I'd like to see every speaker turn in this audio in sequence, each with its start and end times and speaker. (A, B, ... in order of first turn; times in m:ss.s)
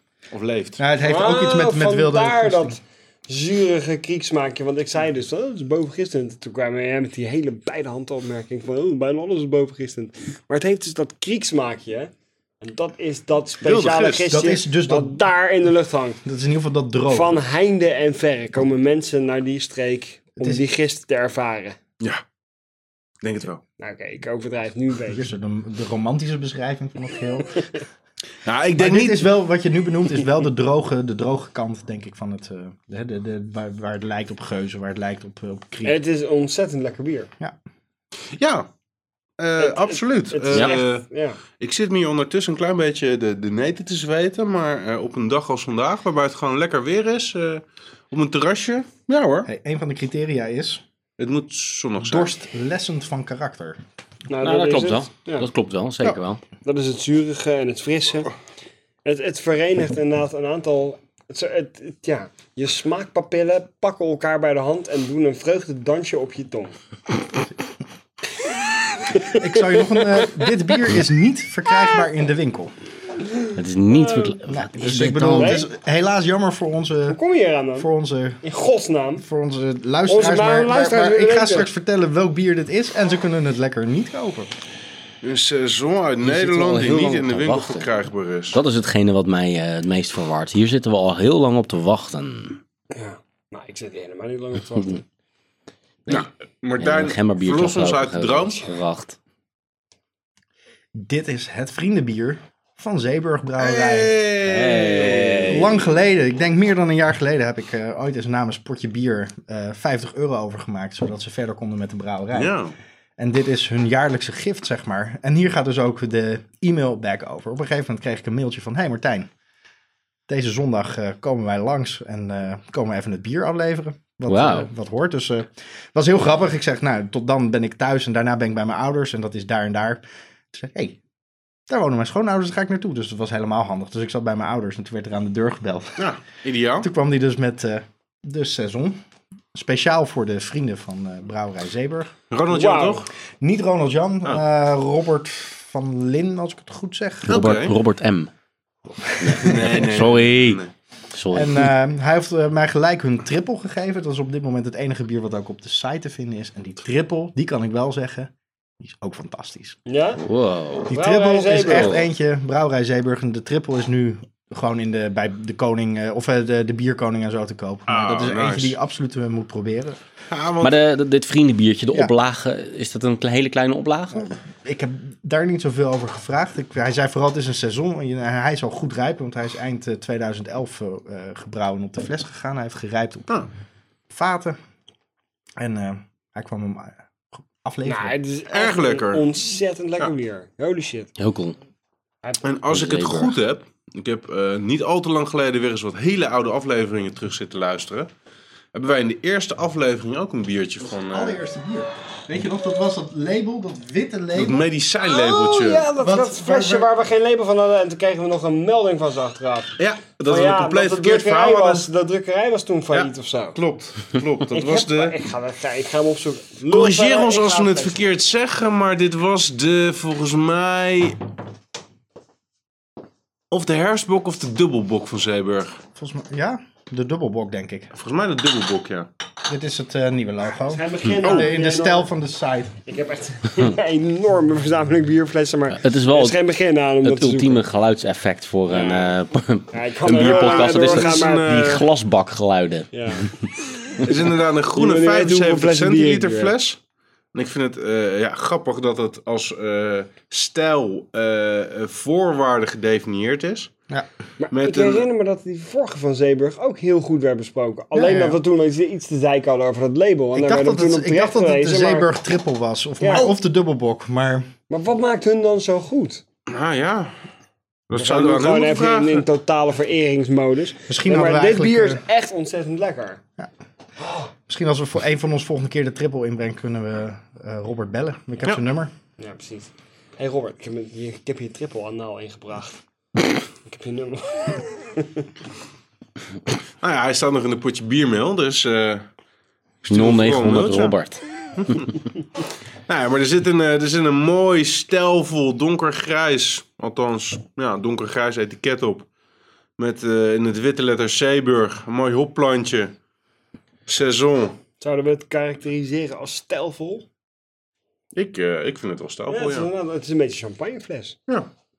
0:00.3-0:00.8 A
0:00.8-0:02.8 B
0:01.0-0:16.2 C
0:13.6-0:14.3 A
0:14.3-0:15.2 B
0:16.2-0:17.4 B
0:17.1-0:21.8 C
0:20.4-0:20.6 B
0:23.2-0:23.6 A
0:23.8-0:25.2 C
0:25.1-0:27.7 B
0:28.4-0:29.3 A
0:28.8-0:36.0 B
0:35.8-0:37.3 C
0:38.3-0:38.7 A
0:39.4-0:49.5 A
0:39.6-0:41.4 C
0:49.4-0:50.8 B
0:51.2-0:52.3 A
0:52.0-0:53.8 B
0:54.3-0:55.5 C
0:54.3-0:56.4 D
0:56.6-0:58.3 C
0:59.0-1:06.8 C
1:09.1-1:10.5 C
1:09.3-1:12.7 B
1:13.5-1:15.6 D
1:14.0-1:14.4 C
1:14.5-1:17.2 B
1:15.3-1:15.7 C
1:17.1-1:17.9 C
1:17.8-1:18.4 B
1:18.4-1:19.2 C
1:19.2-1:24.5 B
1:20.1-1:21.7 C
1:25.2-1:28.6 A
1:26.2-1:27.9 D
1:28.5-1:32.6 D
1:32.9-1:35.0 C
1:36.1-1:39.2 D
1:36.1-1:38.7 A
1:40.9-1:44.1 B
1:43.6-1:45.9 A
1:44.4-1:45.8 D
1:45.5-1:52.6 B
1:52.3-1:52.7 A
1:53.2-1:59.3 B
2:00.3-2:11.0 B
2:04.3-2:04.7 D
2:11.7-2:16.1 B
2:16.0-2:16.9 A
2:16.8-2:19.0 B
2:19.5-2:22.1 B
2:22.3-2:23.1 A
2:22.5-2:23.0 C
2:23.4-2:27.4 B
2:27.2-2:28.3 D
2:27.3-2:27.7 A
2:29.0-2:30.6 D
2:29.3-2:30.7 A
2:31.1-2:31.7 D
2:31.3-2:39.8 B
2:39.9-2:40.2 C
2:40.2-2:40.9 D
2:40.9-2:50.0 B
2:40.9-2:42.0 C
2:41.7-2:42.0 D
2:47.9-2:48.8 A
2:50.3-2:50.8 A
2:50.6-2:54.3 D
2:54.1-3:03.3 B
3:04.1-3:04.6 B
3:05.6-3:08.2 B
3:07.8-3:11.1 C
3:08.5-3:09.2 A
3:11.2-3:11.6 D
3:12.4-3:18.1 A
3:12.7-3:13.4 D
3:18.7-3:21.4 A
3:20.8-3:24.6 B
3:24.3-3:25.9 A
3:25.0-3:33.6 C
3:26.0-3:26.9 B
3:29.8-3:31.9 A
3:32.9-3:35.2 A
3:34.5-3:38.0 C
3:36.7-3:41.2 A
3:43.5-3:45.8 A
3:45.9-3:47.9 B
3:47.9-3:49.1 A
3:49.4-3:52.8 B
3:50.6-3:52.1 C
3:51.2-3:51.5 A
3:52.8-3:57.6 C
3:55.7-3:56.4 D
3:57.0-4:03.3 D
3:58.7-3:59.2 C
3:59.7-4:01.8 C
4:00.0-4:01.9 A
4:02.9-4:04.0 C
4:04.0-4:06.8 A
4:04.7-4:06.5 C
4:07.3-4:13.7 A
4:14.4-4:22.1 C
4:14.5-4:15.0 A
4:17.9-4:18.4 B
4:20.3-4:24.5 B
4:23.0-4:23.3 C
4:24.7-4:26.2 C
4:26.5-4:27.2 A
4:27.9-4:29.2 A
4:27.9-4:33.2 C
4:30.9-4:32.0 B
4:34.0-4:34.3 C
4:34.5-4:38.9 B
4:39.2-4:42.8 C
4:43.6-4:45.2 C
4:46.8-4:49.1 A
4:49.8-4:51.0 A
4:49.9-4:51.2 D
4:51.6-4:51.9 A
4:52.9-4:59.1 A
4:59.8-5:02.9 A
5:03.8-5:04.6 A
5:04.8-5:07.0 C
5:08.1-5:09.7 A
5:09.3-5:11.2 C